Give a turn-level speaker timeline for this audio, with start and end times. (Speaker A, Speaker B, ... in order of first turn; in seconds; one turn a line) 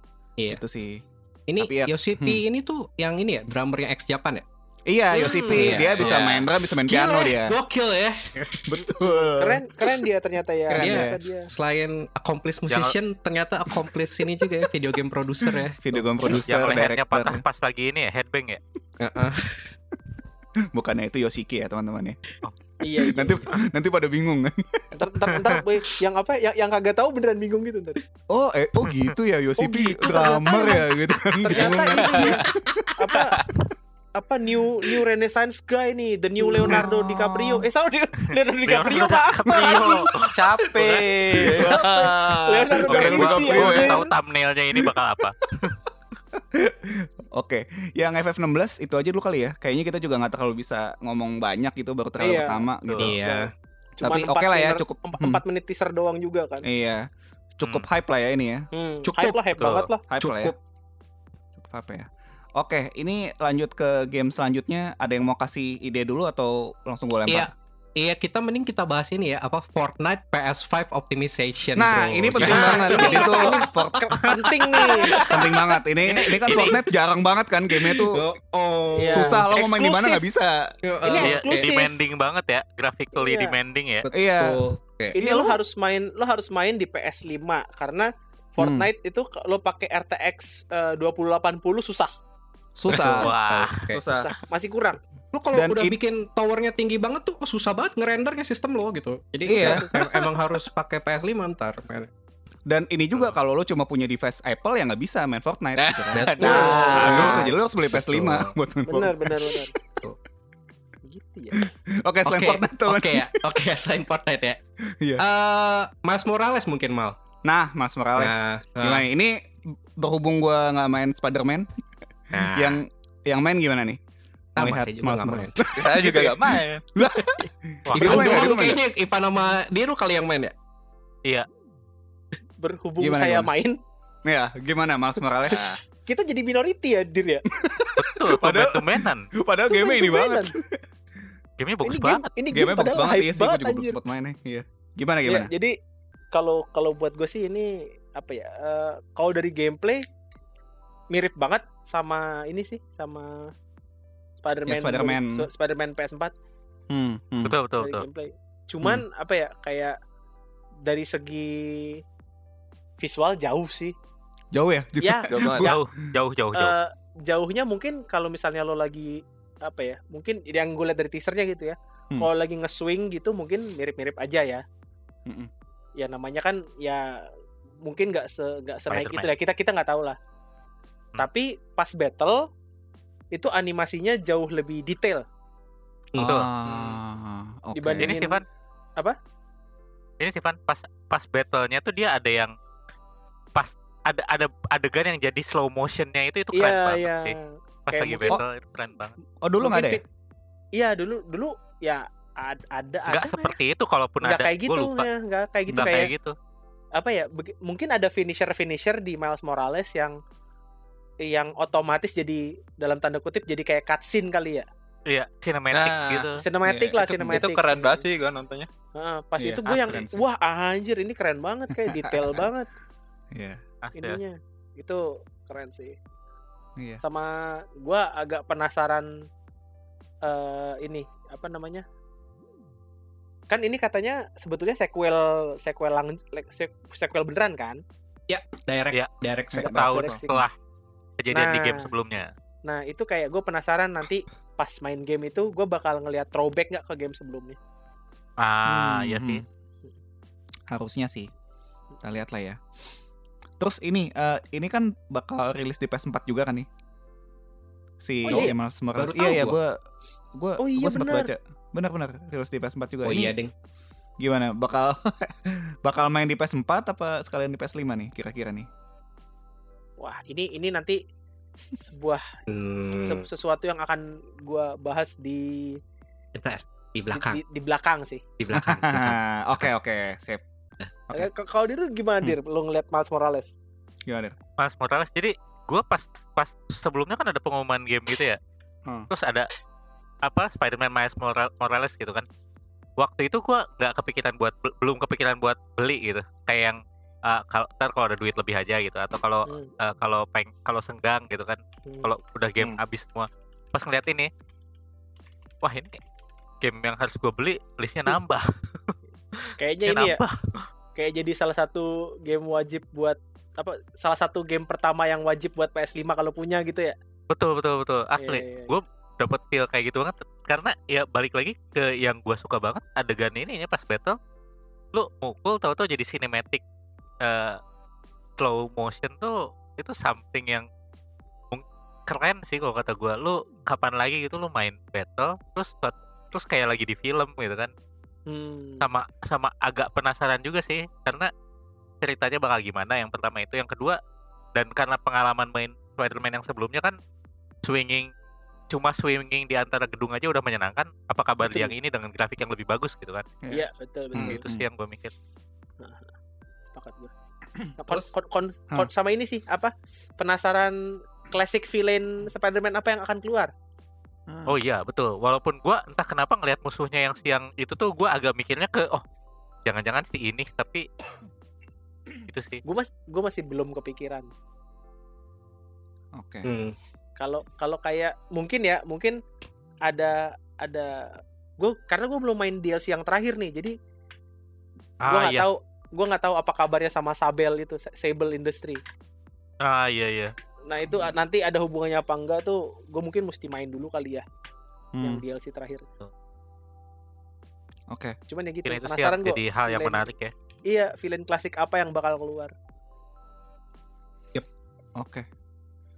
Speaker A: 0.5-1.0
Speaker B: 1.5-4.4
Speaker A: 1.6-2.4
Speaker A: 4.9-7.6
Speaker B: 5.2-8.8
Speaker C: 5.2-5.7
Speaker A: 8.7-9.6
Speaker C: 9.2-11.5
Speaker A: 10.7-11.3
Speaker B: 10.8-16.4
Speaker D: 12.7-12.9
Speaker A: 15.5-17.4
Speaker D: 16.4-18.6
Speaker B: 19.0-19.7
Speaker A: 20.7-22.2
Speaker C: 22.8-23.5
Speaker A: 22.9-24.8
Speaker C: 24.9-28.0
Speaker A: 28.3-32.9
Speaker C: 29.6-30.9
Speaker C: 31.4-32.4
Speaker C: 33.0-33.4
Speaker C: 34.1-40.1
Speaker A: 36.7-37.6
Speaker D: 38.7-40.6
Speaker A: 39.5-39.9
Speaker E: 40.3-41.8
Speaker A: 41.3-42.1
Speaker C: 41.6-44.1
Speaker A: 42.9-44.0
Speaker D: 42.9-45.8
Speaker A: 46.5-53.2
Speaker C: 52.2-52.6
Speaker D: 52.9-53.1
Speaker B: 53.0-53.5
Speaker C: 53.2-56.7
Speaker A: 54.0-55.4
Speaker A: 56.6-58.7
Speaker C: 58.7-60.0
Speaker B: 59.0-59.4
Speaker D: 59.6-59.9
Speaker A: 60.1-60.5
Speaker B: 60.2-60.6
Speaker A: 61.5-67.5
Speaker B: 67.3-73.7
Speaker A: 71.8-74.3
Speaker C: 72.4-75.2
Speaker B: 74.7-76.8
Speaker D: 74.8-75.2
Speaker A: 75.1-78.2
Speaker D: 76.1-76.8
Speaker B: 77.8-79.4
Speaker C: 79.0-80.2
Speaker A: 79.1-80.7
Speaker B: 80.8-81.7
Speaker C: 81.0-82.0
Speaker D: 81.2-84.1
Speaker C: 83.1-83.5
Speaker B: 84.0-85.2
Speaker A: 84.1-84.6
Speaker A: 85.1-85.6
Speaker C: 85.1-92.1
Speaker A: 88.6-88.9
Speaker A: 92.8-93.3
Speaker B: 92.9-94.0
Speaker D: 93.1-93.9
Speaker A: 93.9-94.3
Speaker C: 94.1-95.0
Speaker B: 95.3-102.1
Speaker A: 95.5-96.0
Speaker A: 99.4-100.1
Speaker C: 99.5-100.1
Speaker A: 102.7-109.7
Speaker E: 105.8-107.2
Speaker B: 106.1-108.5
Speaker C: 106.4-107.4
Speaker D: 107.0-107.4
Speaker C: 108.9-109.7
Speaker C: 111.0-111.7
Speaker A: 111.5-113.4
Speaker B: 112.2-114.6
Speaker B: 115.2-117.2
Speaker A: 117.4-121.7
Speaker B: 118.2-119.0
Speaker B: 122.3-122.8
Speaker A: 122.4-124.0
Speaker A: 124.5-128.8
Speaker B: 124.6-125.6
Speaker E: 125.8-126.8
Speaker D: 127.9-128.4
Speaker B: 127.9-130.5
Speaker C: 132.6-133.8
Speaker A: 133.0-133.5
Speaker A: 134.2-135.6
Speaker E: 135.5-135.8
Speaker C: 136.1-137.5
Speaker A: 137.5-140.8
Speaker D: 138.0-139.3
Speaker C: 139.7-140.5
Speaker D: 141.6-142.3
Speaker C: 141.8-144.0
Speaker A: 142.5-145.5
Speaker C: 145.2-145.7
Speaker C: 146.3-150.0
Speaker C: 151.1-153.5
Speaker C: 154.4-156.3
Speaker A: 154.7-155.4
Speaker A: 156.9-157.5
Speaker D: 157.4-158.0
Speaker C: 157.8-159.9
Speaker C: 160.8-162.0
Speaker C: 163.0-163.9
Speaker A: 164.5-165.8
Speaker C: 165.0-165.8
Speaker E: 165.3-165.7
Speaker D: 165.6-166.7
Speaker C: 166.5-174.6
Speaker C: 176.0-177.2
Speaker C: 177.8-180.2
Speaker D: 178.9-179.3
Speaker C: 181.2-182.4
Speaker C: 183.3-185.2
Speaker A: 186.2-188.2
Speaker D: 186.2-186.5
Speaker E: 186.7-187.0
Speaker C: 187.7-188.4
Speaker D: 188.0-188.4
Speaker D: 190.2-192.5
Speaker D: 193.5-197.3
Speaker C: 196.5-198.4
Speaker D: 197.9-199.1
Speaker A: 199.4-200.0
Speaker C: 199.6-200.0
Speaker C: 200.7-203.6
Speaker D: 203.1-205.1
Speaker C: 204.2-206.1
Speaker A: 205.7-206.0
Speaker D: 205.7-206.3
Speaker C: 206.9-210.2
Speaker C: 211.2-214.7
Speaker D: 215.1-216.4
Speaker E: 215.7-216.3
Speaker C: 216.4-218.1
Speaker A: 216.6-217.4
Speaker E: 217.0-218.7
Speaker C: 218.9-222.7
Speaker A: 219.4-220.2
Speaker D: 219.7-220.0
Speaker A: 221.7-222.4
Speaker A: 223.3-223.6
Speaker D: 223.8-224.2
Speaker C: 223.9-226.0
Speaker C: 227.0-229.1
Speaker C: 230.2-231.8
Speaker C: 233.5-237.8
Speaker B: 238.3-240.0
Speaker A: 239.6-240.2
Speaker C: 239.6-240.4
Speaker D: 239.6-240.5
Speaker D: 241.2-242.3
Speaker C: 241.3-241.9
Speaker C: 242.6-247.6
Speaker D: 248.4-249.4
Speaker A: 248.7-249.4
Speaker A: 250.7-251.3
Speaker A: 252.0-252.6
Speaker A: 253.6-256.7
Speaker A: 258.0-259.8
Speaker C: 258.2-258.5
Speaker B: 258.3-259.6
Speaker A: 260.3-263.3
Speaker C: 260.6-261.3
Speaker B: 263.0-263.5
Speaker A: 264.2-268.7
Speaker C: 270.0-271.0
Speaker C: 271.8-272.2
Speaker B: 272.5-273.2
Speaker C: 272.8-275.8
Speaker B: 276.3-277.4
Speaker C: 277.1-278.2
Speaker B: 278.4-279.6
Speaker A: 278.5-280.4
Speaker C: 281.1-283.5
Speaker A: 284.1-284.4
Speaker D: 284.6-288.4
Speaker D: 289.1-289.5
Speaker D: 290.2-292.2
Speaker D: 293.0-304.3
Speaker D: 305.6-306.0
Speaker D: 306.6-310.7
Speaker C: 309.6-310.2
Speaker C: 310.9-316.9
Speaker D: 317.3-324.2
Speaker C: 318.2-318.7
Speaker D: 324.9-326.6
Speaker D: 327.2-327.6
Speaker D: 328.4-330.6
Speaker D: 331.5-337.7
Speaker C: 338.3-338.9
Speaker D: 338.8-341.3
Speaker D: 342.0-344.0
Speaker D: 344.5-346.9
Speaker D: 347.6-348.1
Speaker D: 348.7-353.2
Speaker C: 351.4-351.7
Speaker A: 353.4-354.6
Speaker C: 353.5-354.4
Speaker D: 354.1-355.1
Speaker C: 355.8-356.1
Speaker C: 356.6-357.1
Speaker A: 357.6-358.1
Speaker C: 357.8-363.5
Speaker A: 364.3-364.6
Speaker D: 364.5-369.0
Speaker D: 369.6-370.9
Speaker D: 372.3-372.6
Speaker C: 372.6-374.3
Speaker A: 376.1-376.5
Speaker B: 376.4-376.8
Speaker C: 377.2-379.2
Speaker C: 379.8-383.7
Speaker D: 385.0-385.5
Speaker C: 385.1-388.8
Speaker D: 389.6-390.3
Speaker C: 390.7-394.2
Speaker A: 394.9-395.2
Speaker C: 395.0-395.9
Speaker A: 397.9-398.2
Speaker C: 398.3-400.1
Speaker D: 398.6-400.3
Speaker C: 400.7-402.5
Speaker A: 405.0-405.2